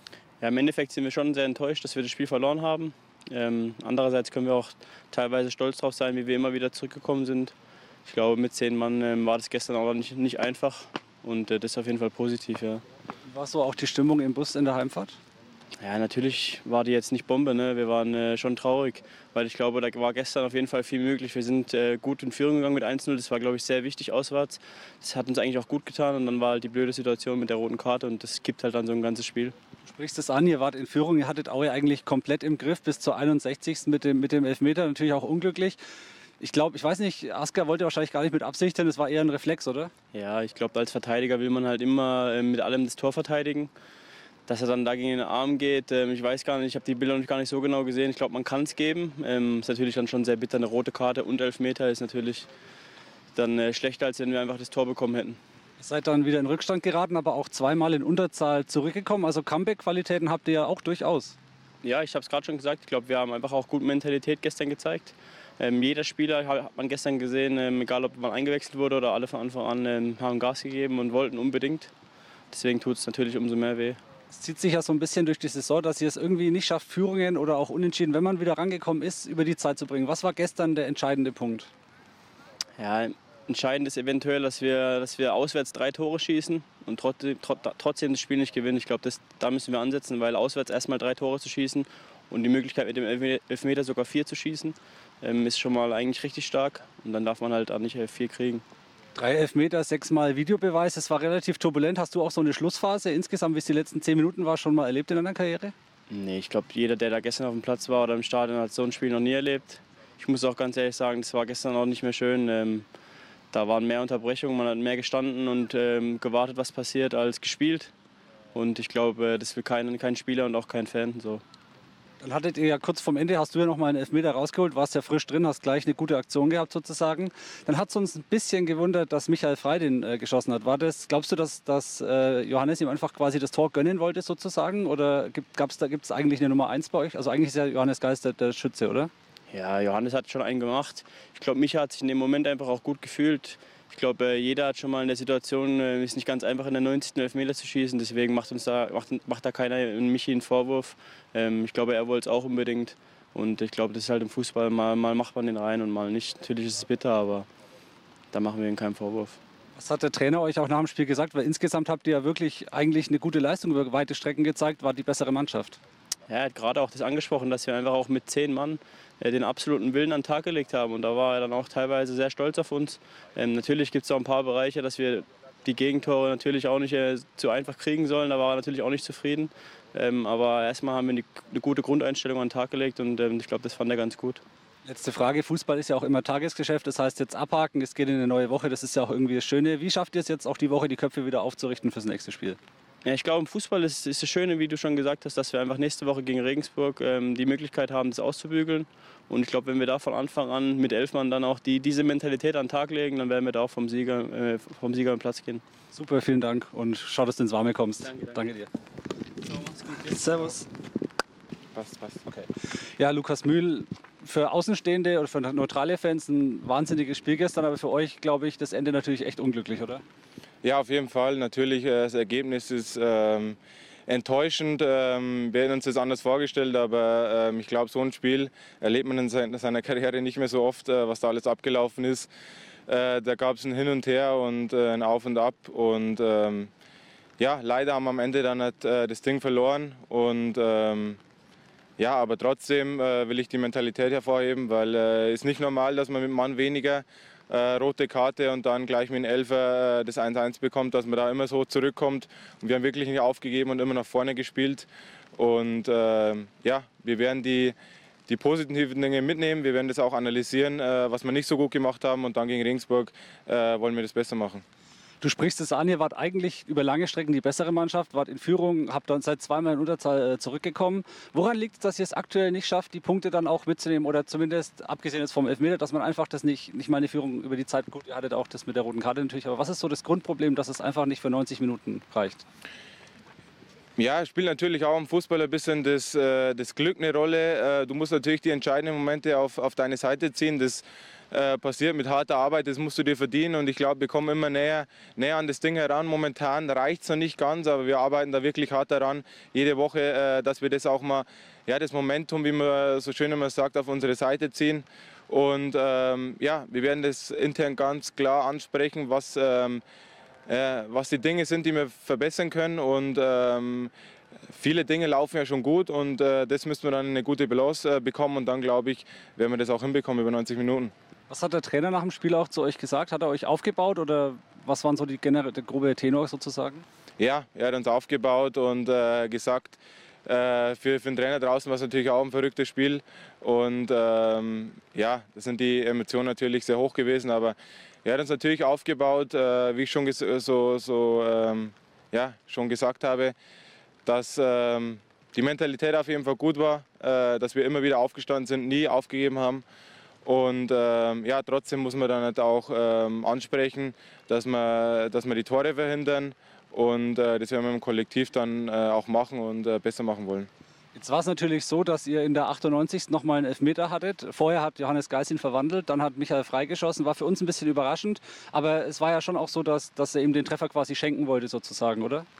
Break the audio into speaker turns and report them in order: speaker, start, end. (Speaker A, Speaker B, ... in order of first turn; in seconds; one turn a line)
Speaker A: 0.4-7.5
Speaker A: 8.1-12.8
Speaker B: 13.3-15.2
Speaker A: 15.8-29.5
Speaker B: 29.8-35.8
Speaker B: 36.4-39.9
Speaker A: 40.1-43.7
Speaker A: 44.5-52.5
Speaker A: 53.3-55.4
Speaker B: 55.8-61.4
Speaker A: 61.8-71.9
Speaker A: 72.5-74.0
Speaker B: 74.3-81.7
Speaker A: 82.8-98.6
Speaker B: 99.2-105.7
Speaker A: 106.1-112.8
Speaker A: 113.5-117.9
Speaker A: 118.5-121.4
Speaker B: 122.2-139.1
Speaker A: 139.5-157.5
Speaker A: 158.3-159.4
Speaker B: 159.8-165.8
Speaker A: 166.3-184.4
Speaker B: 184.8-192.6
Speaker A: 193.0-205.6
Speaker B: 205.9-208.7
Speaker A: 208.1-208.4
Speaker A: 209.4-210.2
Speaker B: 210.0-210.7
Speaker C: 211.7-212.2
Speaker B: 212.2-220.0
Speaker C: 220.6-232.3
Speaker C: 232.9-236.7
Speaker C: 237.4-241.2
Speaker C: 242.0-257.7
Speaker C: 258.3-264.6
Speaker B: 265.2-282.4
Speaker C: 284.0-309.8
Speaker C: 310.5-313.9
Speaker C: 314.5-320.9
Speaker B: 321.3-326.8
Speaker C: 327.2-343.3
Speaker C: 344.1-349.6
Speaker C: 350.2-360.5
Speaker B: 360.9-372.2